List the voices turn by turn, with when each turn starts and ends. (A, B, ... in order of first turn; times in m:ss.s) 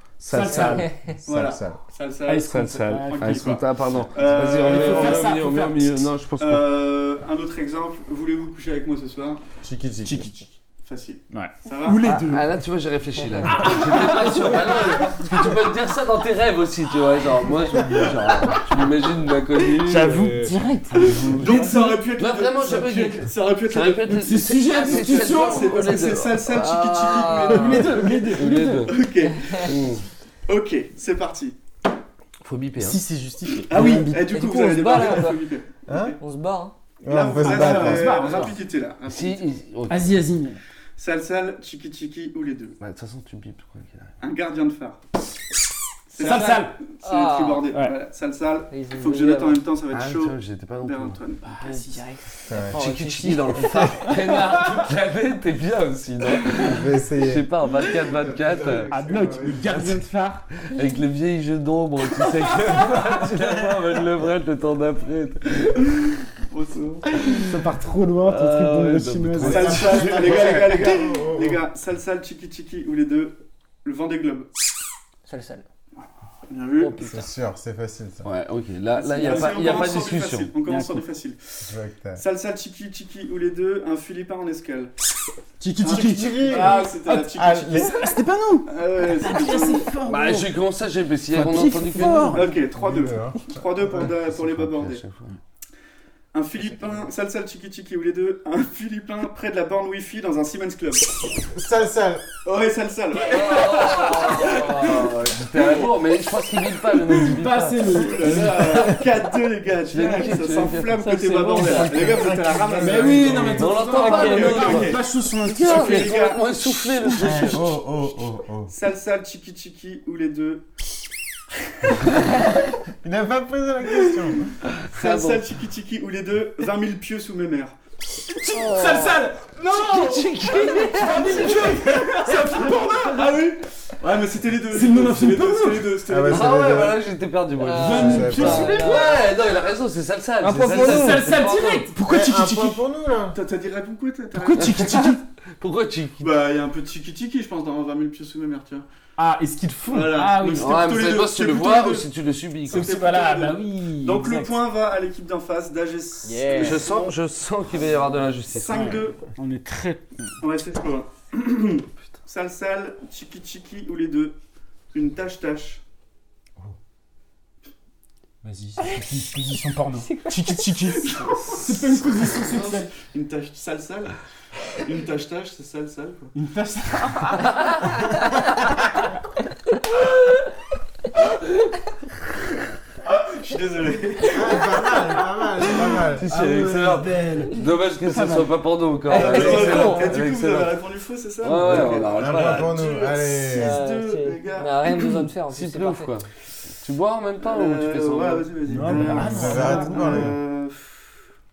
0:00.2-0:00.9 A
0:00.2-0:00.9 B
0:00.6-0:00.9 C
0:01.2-0:01.8 D
0:01.2-0:05.4 E
0:02.3-0:03.6 B
0:02.4-0:06.7 A
0:04.2-0:06.1 B
0:06.4-0:09.4 E
0:09.6-0:10.2 D
0:10.0-0:10.5 B
0:10.8-0:12.1 E
0:11.3-0:12.5 B
0:12.0-0:20.5 A
0:13.5-0:14.3 B
0:19.8-0:22.0 B
0:21.1-0:29.9 E
0:21.4-0:29.0 A
0:24.3-0:25.7 B
0:27.5-0:28.8 B
0:29.3-0:29.6 C
0:29.6-0:30.0 A
0:30.5-0:31.6 E
0:32.4-0:33.0 A
0:32.8-0:34.4 B
0:33.6-0:36.1 E
0:34.2-0:35.4 C
0:35.9-0:36.2 D
0:36.2-0:36.7 C
0:37.0-0:38.3 D
0:37.0-0:39.6 E
0:37.4-0:38.6 B
0:39.1-0:40.2 A
0:39.9-0:40.6 B
0:41.0-0:42.8 E
0:42.8-0:44.1 A
0:44.2-0:45.0 E
0:46.1-0:51.8 E
0:46.1-0:46.8 B
0:46.2-0:46.5 C
0:47.0-0:47.7 C
0:47.7-0:48.0 B
0:48.7-0:49.6 C
0:49.9-0:51.2 A
0:51.4-0:52.2 B
0:52.5-0:52.8 D
0:52.6-0:54.0 C
0:52.8-0:58.9 A
0:56.6-0:59.7 D
0:58.9-1:00.4 B
0:59.7-1:00.0 A
1:00.6-1:06.0 A
1:06.5-1:07.3 E
1:07.3-1:10.7 B
1:08.2-1:10.6 A
1:09.4-1:11.6 D
1:09.4-1:14.5 E
1:15.3-1:15.6 C
1:16.5-1:17.0 E
1:16.8-1:17.2 C
1:17.0-1:18.3 D
1:18.2-1:20.5 A
1:19.0-1:21.6 E
1:19.2-1:19.9 B
1:20.6-1:21.0 B
1:21.6-1:22.2 D
1:22.2-1:24.9 E
1:25.6-1:30.5 B
1:25.8-1:28.1 E
1:25.9-1:28.0 D
1:28.6-1:29.9 E
1:30.0-1:32.5 A
1:31.3-1:32.6 B
1:32.3-1:35.0 E
1:32.6-1:34.0 D
1:34.0-1:35.3 A
1:36.3-1:41.1 E
1:36.6-1:37.0 C
1:41.5-1:42.2 D
1:42.4-1:45.1 E
1:43.2-1:49.0 A
1:47.0-1:49.0 B
1:47.9-1:57.7 E
1:49.9-1:52.2 A
1:50.9-1:52.0 C
1:51.8-1:53.7 D
1:52.7-1:56.2 B
1:53.3-1:57.8 A
1:57.2-1:58.7 D
1:58.7-2:00.7 E
2:03.0-2:04.5 D
2:03.9-2:04.3 E
2:04.8-2:05.4 A
2:04.9-2:07.8 E
2:08.3-2:13.5 B
2:08.5-2:09.2 C
2:09.6-2:11.6 A
2:10.7-2:11.5 C
2:12.8-2:16.9 E
2:14.7-2:16.0 B
2:16.1-2:17.0 D
2:16.3-2:21.9 A
2:17.6-2:19.2 C
2:17.7-2:19.1 B
2:17.9-2:18.8 D
2:20.4-2:21.3 C
2:20.5-2:22.8 B
2:22.0-2:23.4 D
2:23.3-2:25.1 E
2:24.3-2:25.2 B
2:24.6-2:26.3 A
2:26.2-2:28.9 E
2:29.2-2:30.9 B
2:29.9-2:32.1 E
2:30.6-2:32.9 A
2:32.7-2:34.6 B
2:32.7-2:37.1 E
2:36.2-2:36.8 B
2:36.6-2:39.0 A
2:38.5-2:39.3 E
2:38.7-2:40.3 B
2:40.4-2:44.4 E
2:44.9-2:45.8 E
2:48.4-2:52.9 B
2:50.0-2:50.4 C
2:51.1-2:54.1 E
2:54.7-2:56.3 E
2:56.3-2:57.4 B
3:03.0-3:04.8 E
3:04.3-3:06.2 D
3:05.7-3:08.5 B
3:06.2-3:10.8 A
3:09.1-3:10.1 C
3:09.1-3:15.2 E
3:11.4-3:12.8 A
3:12.1-3:13.8 D
3:13.5-3:16.1 C
3:15.5-3:16.3 A
3:16.8-3:18.5 A
3:17.4-3:21.1 E
3:18.6-3:20.3 B
3:18.8-3:20.4 D